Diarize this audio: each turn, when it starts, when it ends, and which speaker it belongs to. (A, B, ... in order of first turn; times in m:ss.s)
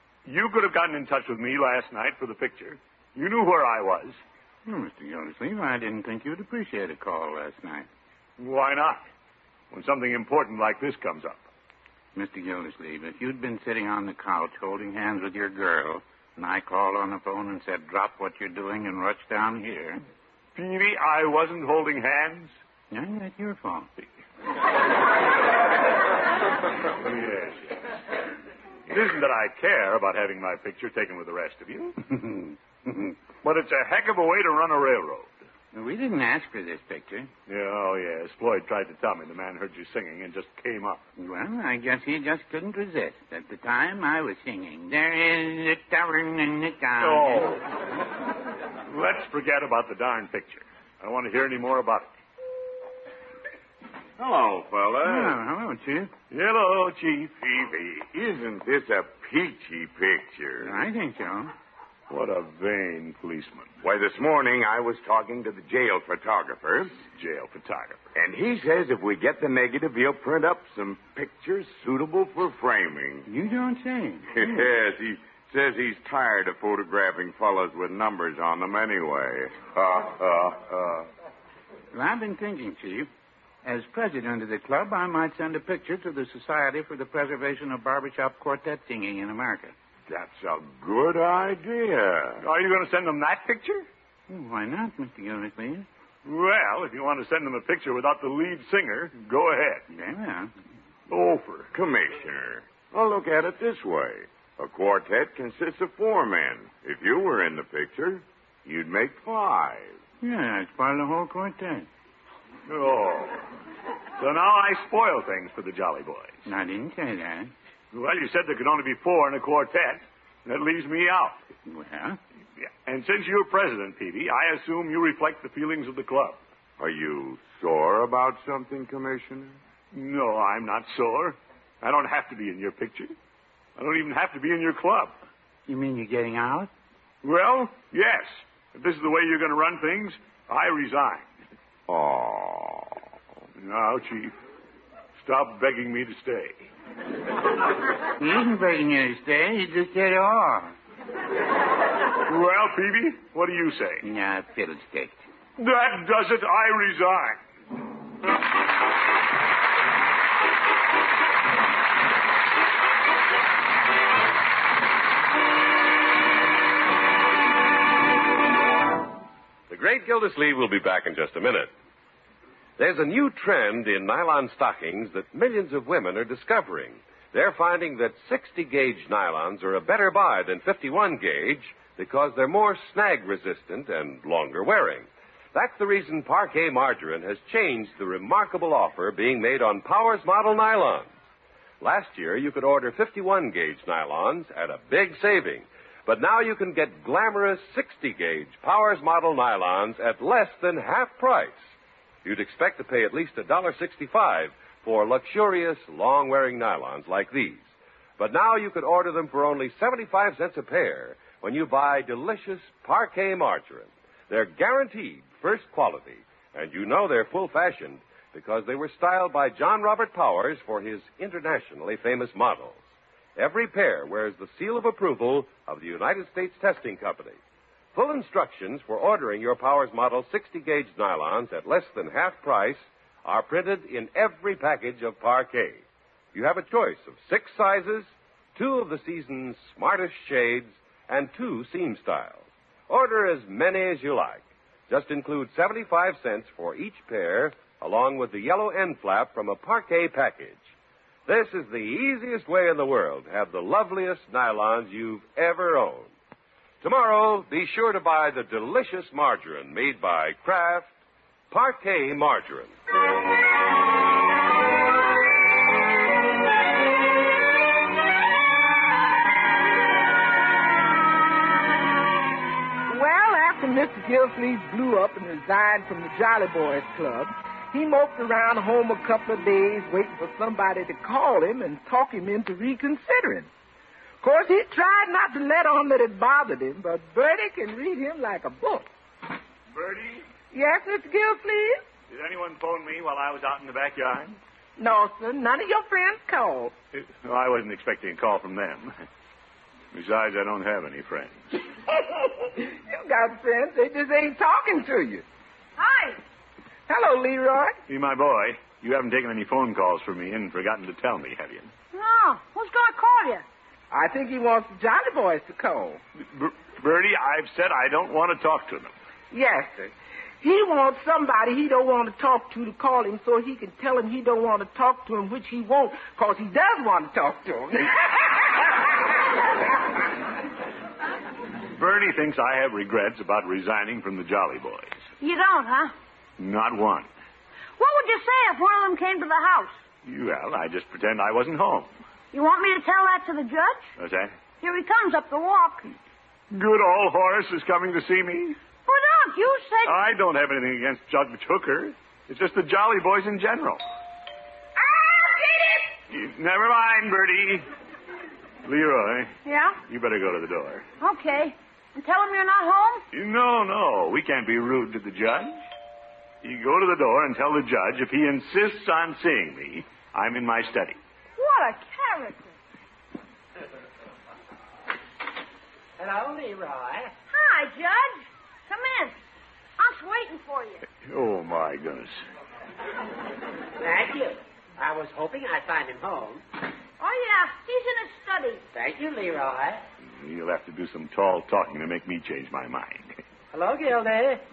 0:00.2-0:04.2 A
0:04.6-0:07.9 B
0:08.4-0:09.1 A
0:09.7-0:11.4 A
0:12.1-0:20.0 B
0:20.5-0:22.6 A
0:22.9-0:23.9 B
0:27.0-0:27.8 A
0:28.9-0:32.0 A
0:32.1-0:33.1 B
0:33.4-0:35.4 A
0:35.7-0:37.3 B
0:37.5-0:41.0 A
0:41.2-0:47.6 B
0:47.0-0:47.6 A
0:48.9-0:52.1 A
0:54.2-0:55.4 C
0:55.0-0:56.1 B
0:56.3-0:57.4 A
0:57.4-1:00.8 C
1:00.6-1:01.5 B
1:02.1-1:03.7 A
1:03.8-1:07.0 C
1:07.1-1:08.0 A
1:08.1-1:13.3 C
1:13.3-1:14.6 B
1:14.3-1:21.1 C
1:21.9-1:23.1 B
1:23.6-1:29.7 B
1:30.1-1:32.4 C
1:32.4-1:33.9 A
1:34.3-1:35.9 B
1:36.2-1:39.8 A
1:39.9-1:40.5 B
1:41.1-1:41.7 A
1:41.7-1:50.0 C
1:50.2-1:51.9 B
1:52.6-1:53.4 A
1:54.2-1:56.4 A
1:56.4-1:57.5 B
1:57.9-2:01.4 A
2:01.6-2:02.2 B
2:02.6-2:06.4 A
2:06.8-2:09.6 C
2:09.9-2:13.1 A
2:13.8-2:15.2 A
2:15.7-2:16.7 B
2:17.2-2:21.3 A
2:21.9-2:22.9 C
2:23.6-2:24.3 A
2:25.2-2:26.7 A
2:28.2-2:30.7 B
2:32.2-2:34.0 A
2:34.0-2:35.2 B
2:35.6-2:37.4 A
2:49.7-2:51.7 D
2:52.8-3:11.1 D
3:11.8-3:21.6 D
3:22.2-3:47.4 D
3:47.9-4:10.7 D
4:11.2-4:16.1 D
4:16.8-4:20.9 D
4:21.5-4:22.7 D
4:32.9-4:43.5 E
4:44.2-4:48.9 E
4:49.7-4:50.3 A
4:50.5-4:51.8 E
4:52.1-4:54.4 A
4:54.8-4:56.7 E
4:56.9-4:58.9 A
4:59.9-5:01.6 A
5:02.0-5:05.2 E
5:05.8-5:06.2 F
5:06.9-5:07.8 E
5:07.9-5:11.7 A
5:11.9-5:13.4 F
5:13.9-5:16.0 E
5:16.2-5:18.9 A
5:19.3-5:29.0 E
5:31.7-5:35.0 A
5:35.2-5:35.9 F
5:36.4-5:37.1 A
5:37.8-5:39.8 F
5:40.0-5:41.9 A
5:42.3-5:43.9 F
5:44.0-5:44.3 A
5:44.6-5:45.9 F
5:46.5-5:48.6 A
5:48.8-5:50.0 F
5:49.8-5:53.8 A
5:54.8-5:55.9 E
5:56.1-5:57.7 A
5:58.6-5:59.3 A
5:59.4-5:59.8 F
5:59.9-6:00.8 A
6:01.0-6:03.0 F
6:03.1-6:05.6 A
6:06.4-6:11.0 A
6:11.4-6:12.6 F
6:16.0-6:17.1 G
6:17.3-6:19.2 F
6:19.8-6:20.8 F
6:21.0-6:22.2 A
6:23.8-6:26.4 G
6:27.0-6:28.6 F
6:28.7-6:29.8 G
6:30.1-6:33.2 A
6:33.5-6:34.4 G